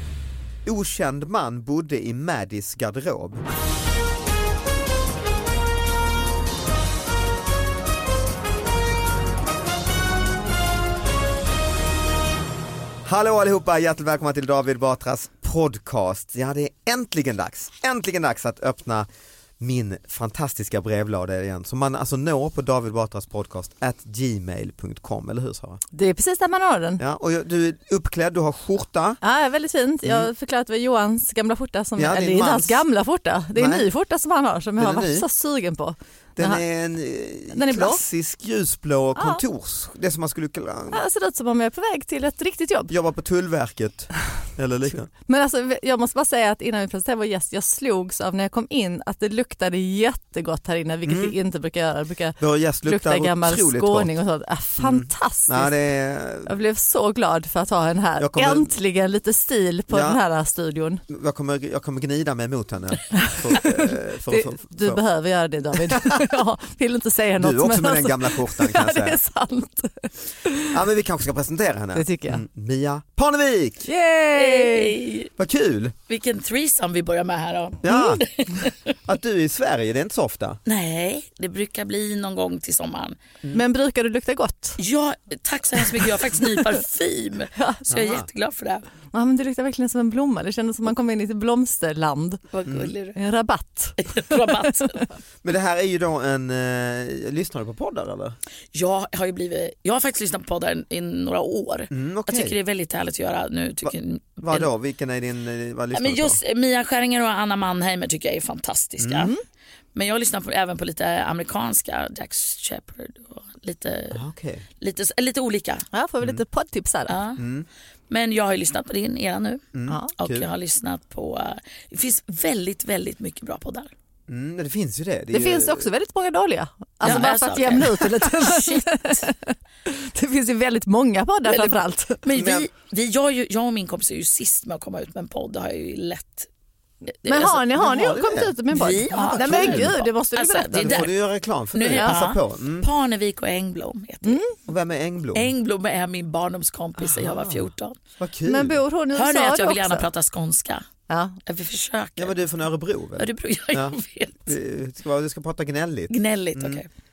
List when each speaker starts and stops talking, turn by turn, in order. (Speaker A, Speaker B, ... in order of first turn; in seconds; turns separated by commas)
Speaker A: 0.6-3.4, Speaker A: 13.0-19.1, Speaker A: 19.6-25.8, Speaker B: 25.9-27.0, Speaker A: 27.0-29.2, Speaker B: 29.2-36.6, Speaker A: 31.9-32.8, Speaker A: 33.5-33.9, Speaker A: 34.8-35.2, Speaker A: 36.4-41.0, Speaker B: 37.5-38.0, Speaker B: 39.1-39.4, Speaker B: 40.9-42.9, Speaker A: 42.9-45.1, Speaker B: 45.2-55.8, Speaker A: 51.0-51.3, Speaker A: 52.4-54.1, Speaker A: 54.8-56.5, Speaker B: 56.4-61.0, Speaker A: 58.2-58.7, Speaker A: 59.9-60.2, Speaker A: 61.1-65.0, Speaker B: 63.1-70.8, Speaker A: 65.7-66.4, Speaker A: 67.4-69.2, Speaker A: 70.7-73.9, Speaker B: 71.9-72.4, Speaker B: 73.8-75.0, Speaker C: 74.3-75.3, Speaker A: 75.4-75.9, Speaker C: 76.1-78.9, Speaker A: 77.8-78.2, Speaker B: 77.9-78.2, Speaker A: 79.0-80.6, Speaker C: 80.7-83.2, Speaker B: 83.5-84.8, Speaker C: 84.8-88.8, Speaker B: 86.0-86.6, Speaker B: 87.5-87.9, Speaker A: 87.9-88.3, Speaker B: 89.1-92.4, Speaker C: 92.5-93.2, Speaker A: 92.7-92.9, Speaker B: 93.2-95.0, Speaker C: 94.0-95.0, Speaker A: 95.4-98.4, Speaker C: 98.7-104.7, Speaker A: 101.9-102.5, Speaker A: 103.8-106.4, Speaker C: 105.9-109.3, Speaker A: 109.0-109.3, Speaker B: 109.1-109.4, Speaker C: 109.9-114.2, Speaker A: 114.1-114.6, Speaker C: 114.8-115.8, Speaker B: 115.9-117.2, Speaker C: 117.1-117.4, Speaker A: 117.4-117.7, Speaker C: 118.1-119.6, Speaker A: 119.7-120.5, Speaker C: 120.2-123.9, Speaker A: 124.3-125.9, Speaker B: 125.3-132.2, Speaker C: 127.0-129.2, Speaker C: 131.4-136.5, Speaker A: 132.3-132.7, Speaker C: 137.2-137.6, Speaker B: 137.2-141.1, Speaker A: 137.7-138.6, Speaker C: 138.7-141.2, Speaker A: 139.1-139.9, Speaker A: 140.8-142.9, Speaker C: 141.7-144.4, Speaker B: 141.9-142.2, Speaker B: 144.2-144.5, Speaker A: 144.7-145.5, Speaker C: 145.3-148.0, Speaker A: 147.0-148.8, Speaker B: 148.4-150.1, Speaker C: 149.1-150.8, Speaker B: 151.1-151.4, Speaker C: 151.4-152.3, Speaker A: 152.2-156.8, Speaker C: 153.2-154.5, Speaker C: 156.1-156.9